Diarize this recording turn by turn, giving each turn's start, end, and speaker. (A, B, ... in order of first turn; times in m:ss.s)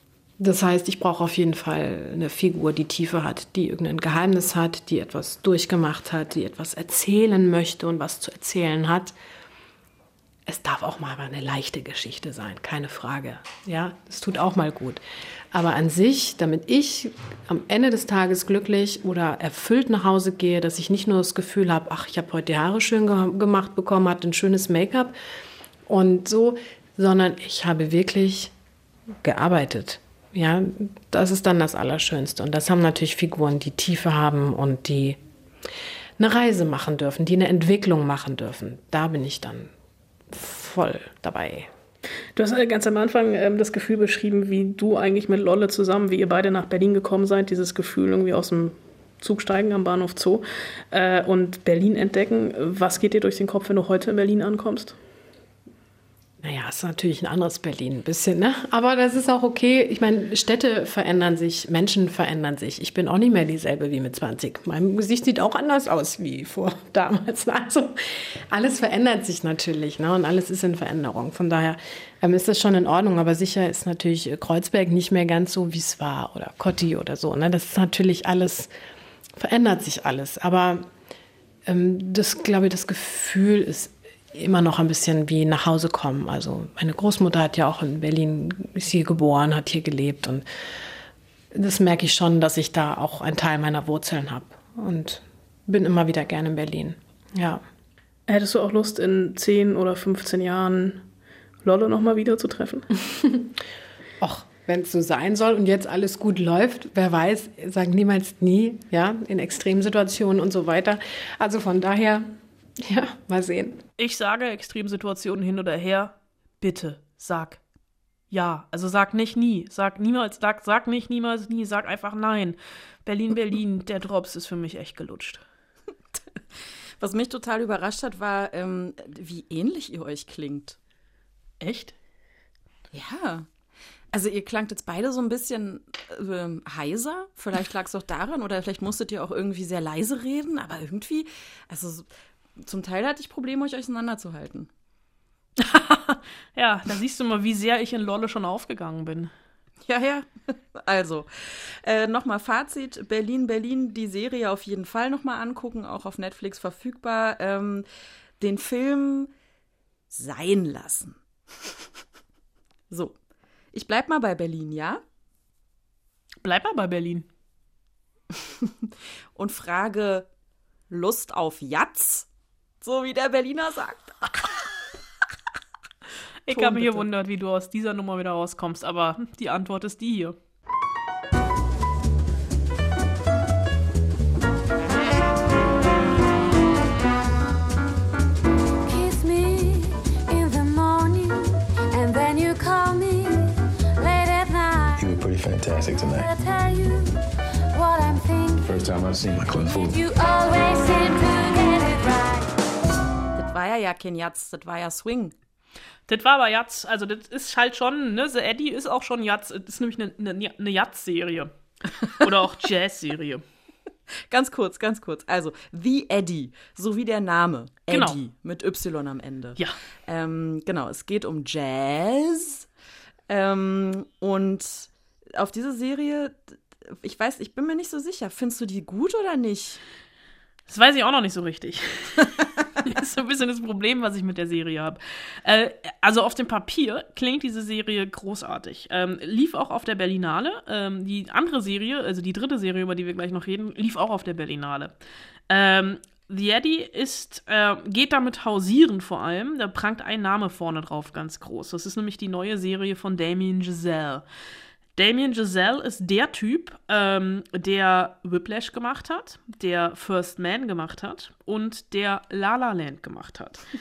0:00.4-0:09.1 A
0:10.5-0:25.1 A
0:25.9-0:28.5 A
0:29.2-0:35.2 A
0:36.2-0:39.7 A
0:40.3-0:41.7 A
0:42.4-0:55.0 B
0:56.4-1:18.7 A
1:19.4-1:20.9 A
1:21.6-1:30.4 A
1:31.5-1:37.6 A
1:38.3-1:41.0 B
1:41.6-1:42.9 B
1:43.2-1:43.5 A
1:44.2-1:53.8 A
1:54.0-1:57.6 C
1:58.3-2:05.4 C
2:07.0-2:10.8 D
2:11.6-2:11.9 C
2:12.9-2:13.5 D
2:14.1-2:22.1 D
2:22.6-2:24.7 D
2:25.6-2:29.3 C
2:29.8-2:37.9 D
2:38.4-2:39.3 D
2:40.1-2:41.8 D
2:42.9-2:43.2 D
2:43.7-2:45.0 D
2:46.4-2:47.3 C
2:48.6-2:50.3 D
2:50.9-2:52.3 D
2:52.8-2:54.4 D
2:56.5-3:00.4 C
2:56.5-2:57.0 D
3:08.8-3:15.1 E
3:15.0-3:16.3 F
3:15.8-3:17.2 E
3:17.7-3:18.8 E
3:18.6-3:20.0 F
3:19.5-3:22.5 E
3:23.4-3:25.3 D
3:26.1-3:31.5 C
3:32.0-3:33.4 C
3:34.3-3:42.7 D
3:37.9-3:38.2 C
3:43.3-3:49.8 D
3:50.7-4:04.9 C
4:05.5-4:14.2 C
4:15.0-4:23.6 C